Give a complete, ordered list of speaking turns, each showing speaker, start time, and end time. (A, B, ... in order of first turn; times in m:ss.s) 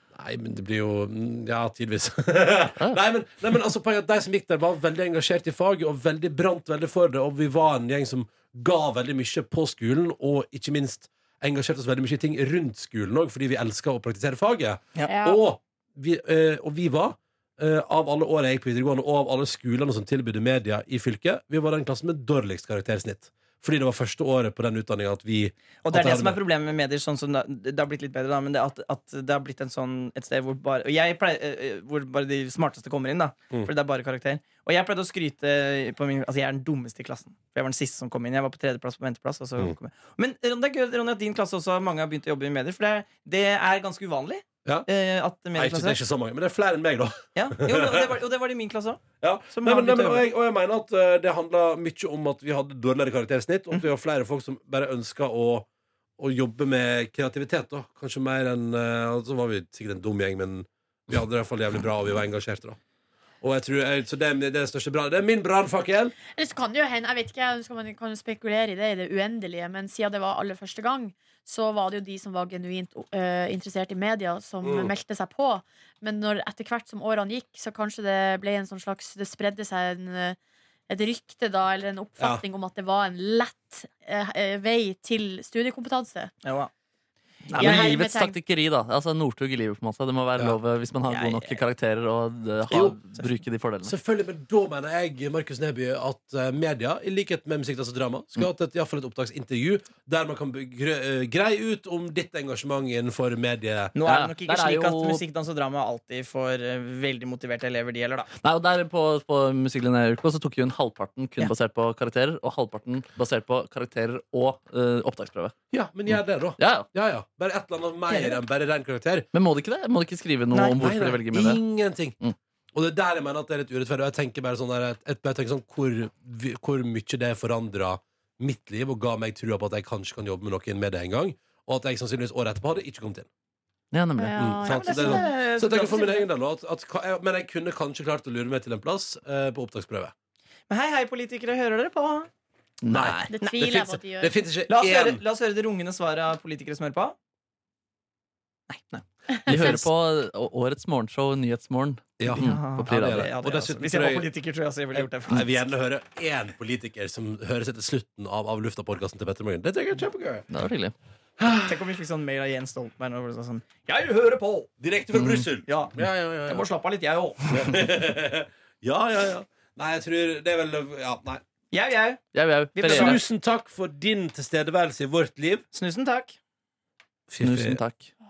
0:00.1-0:26.4 A
0:15.0-0:15.4 B
0:25.8-0:46.0 C
0:45.5-0:48.1 A
0:47.3-0:50.2 C
0:49.2-0:55.7 A
0:56.2-1:02.8 A
1:03.4-1:06.1 A
1:06.3-1:20.4 B
1:14.6-1:14.9 A
1:20.9-1:26.3 B
1:26.4-1:26.7 C
1:27.5-1:27.8 C
1:27.5-1:33.9 D
1:27.6-1:28.4 B
1:31.1-1:31.6 C
1:32.7-1:33.0 A
1:33.8-1:43.9 A
1:43.9-1:48.3 C
1:44.0-1:45.2 D
1:48.4-1:55.5 D
1:55.7-1:59.3 A
1:56.1-1:56.9 D
1:58.1-1:58.4 C
1:59.3-2:01.6 D
2:00.5-2:00.8 C
2:00.8-2:02.2 A
2:02.7-2:13.3 A
2:13.9-2:14.5 D
2:14.2-2:15.3 B
2:14.4-2:20.1 A
2:14.6-2:16.3 C
2:20.7-2:22.3 C
2:22.8-2:23.3 D
2:22.9-2:25.2 A
2:23.3-2:24.4 B
2:23.4-2:23.8 C
2:24.7-2:27.2 C
2:28.7-2:29.8 C
2:29.4-2:29.6 B
2:29.5-2:33.3 D
2:32.2-2:34.3 A
2:32.3-2:35.6 C
2:34.9-2:40.5 A
2:40.5-2:40.9 D
2:41.4-2:41.8 A
2:41.6-2:44.7 C
2:44.8-2:46.6 A
2:45.1-2:45.5 D
2:45.7-2:47.7 C
2:47.5-2:51.4 A
2:51.7-2:52.2 C
2:52.3-2:53.2 D
2:52.7-2:53.2 C
2:52.9-2:55.6 A
2:55.7-2:56.4 C
2:57.3-2:57.8 A
2:57.4-2:58.1 D